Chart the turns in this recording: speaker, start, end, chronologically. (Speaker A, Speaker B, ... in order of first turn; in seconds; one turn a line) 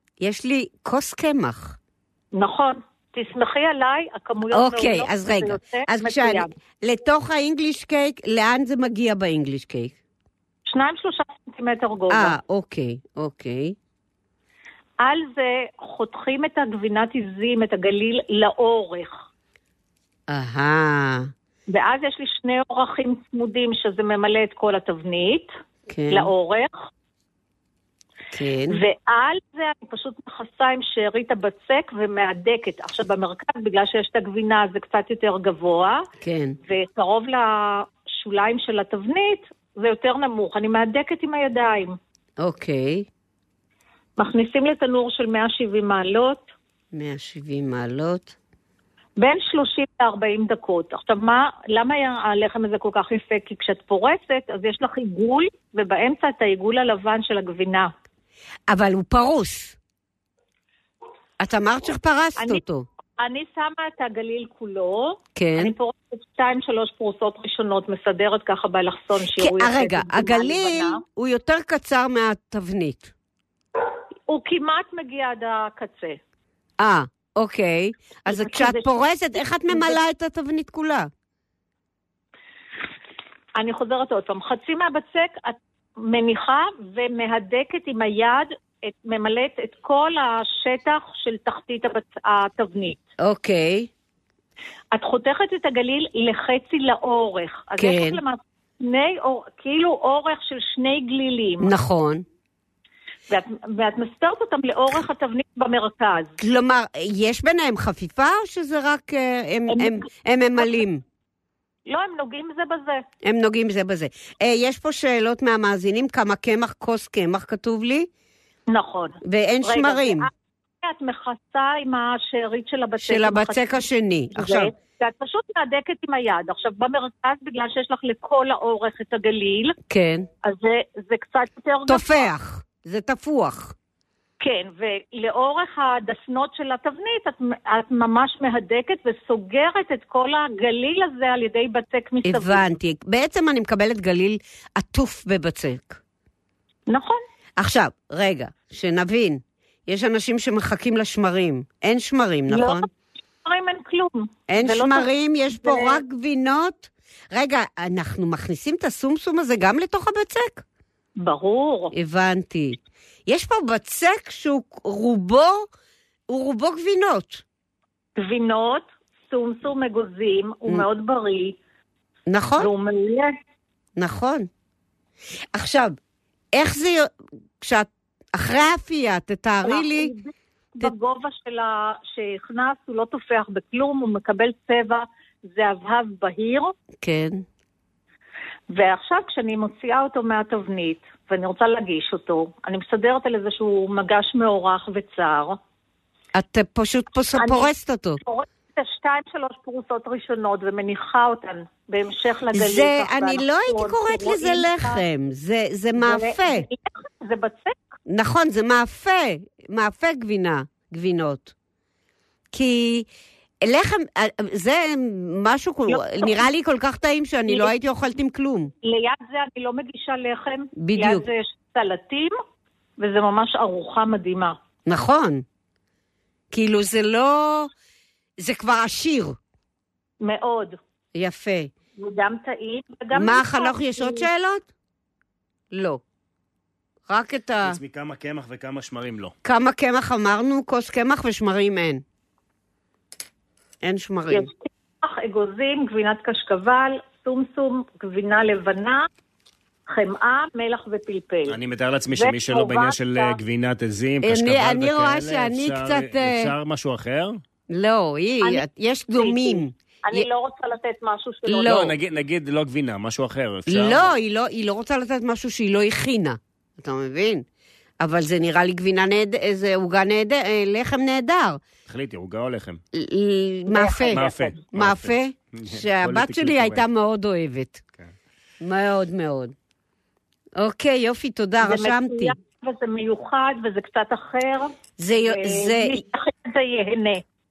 Speaker A: 0.2-1.8
Speaker B: 2.3-6.5
Speaker A: 4.5-9.9
Speaker B: 10.7-12.3
Speaker A: 12.1-13.8
Speaker B: 15.0-19.2
Speaker A: 20.3-21.3
Speaker B: 21.7-25.5
Speaker A: 25.9-26.3
Speaker B: 26.1-26.9
Speaker A: 28.3-28.8
Speaker B: 28.7-36.0
Speaker A: 36.2-36.6
Speaker B: 36.6-42.0
Speaker A: 42.4-43.1
Speaker B: 44.2-46.5
Speaker A: 46.9-48.3
Speaker B: 49.2-57.9
Speaker A: 58.7-59.8
Speaker A: 61.4-62.8
Speaker B: 62.4-62.6
Speaker B: 63.2-71.0
Speaker A: 65.3-65.7
Speaker A: 69.4-73.1
Speaker B: 74.3-76.2
Speaker A: 76.8-81.1
Speaker B: 78.3-78.9
Speaker B: 79.7-80.0
Speaker B: 83.6-93.0
Speaker A: 93.2-93.9
Speaker B: 94.9-101.7
Speaker A: 97.8-98.2
Speaker A: 101.6-102.2
Speaker B: 103.3-106.3
Speaker A: 106.4-111.0
Speaker B: 109.7-110.0
Speaker B: 111.9-113.0
Speaker A: 113.2-118.1
Speaker B: 118.7-120.3
Speaker A: 119.2-120.3
Speaker B: 120.8-123.8
Speaker A: 123.0-124.7
Speaker B: 124.3-129.7
Speaker A: 129.9-130.3
Speaker B: 130.4-132.3
Speaker A: 131.9-133.7
Speaker B: 134.4-142.6
Speaker A: 142.2-146.0
Speaker B: 146.9-147.2
Speaker A: 147.6-152.8
Speaker B: 152.5-152.9
Speaker B: 153.4-156.0
Speaker A: 154.5-160.6
Speaker B: 161.2-161.9
Speaker A: 161.9-165.7
Speaker A: 166.3-167.4
Speaker B: 168.2-171.6
Speaker A: 172.3-172.7
Speaker B: 172.6-173.3
Speaker A: 174.0-174.5
Speaker A: 175.5-176.0
Speaker A: 176.5-180.1
Speaker B: 179.6-186.7
Speaker A: 187.0-187.4
Speaker B: 188.7-195.6
Speaker A: 196.3-198.2
Speaker B: 197.4-197.7
Speaker B: 198.2-205.0
Speaker A: 202.5-206.7
Speaker B: 206.0-207.8
Speaker A: 208.1-211.5
Speaker A: 212.5-213.1
Speaker A: 213.6-218.7
Speaker B: 215.9-216.4
Speaker B: 218.8-222.3
Speaker A: 220.8-221.2
Speaker B: 223.0-224.6
Speaker A: 224.9-225.4
Speaker A: 226.5-227.7
Speaker A: 228.4-229.4
Speaker B: 230.2-230.8
Speaker A: 231.1-231.7
Speaker B: 232.0-234.3
Speaker A: 233.1-234.7
Speaker A: 235.7-236.0
Speaker A: 237.1-237.8
Speaker C: 237.6-239.3
Speaker A: 239.4-242.0
Speaker A: 243.8-244.5
Speaker B: 244.3-249.1
Speaker B: 249.9-251.6
Speaker C: 251.5-257.4
Speaker B: 252.1-253.3
Speaker A: 254.2-256.5
Speaker A: 257.7-260.3
Speaker B: 258.4-261.8
Speaker A: 261.5-261.9
Speaker C: 261.6-264.1
Speaker A: 263.7-267.4
Speaker A: 268.0-271.6
Speaker C: 271.9-272.8
Speaker A: 272.9-277.8
Speaker B: 273.7-274.0
Speaker C: 274.1-276.8
Speaker A: 278.6-279.5
Speaker A: 280.6-282.3
Speaker B: 281.6-287.2
Speaker A: 285.0-286.0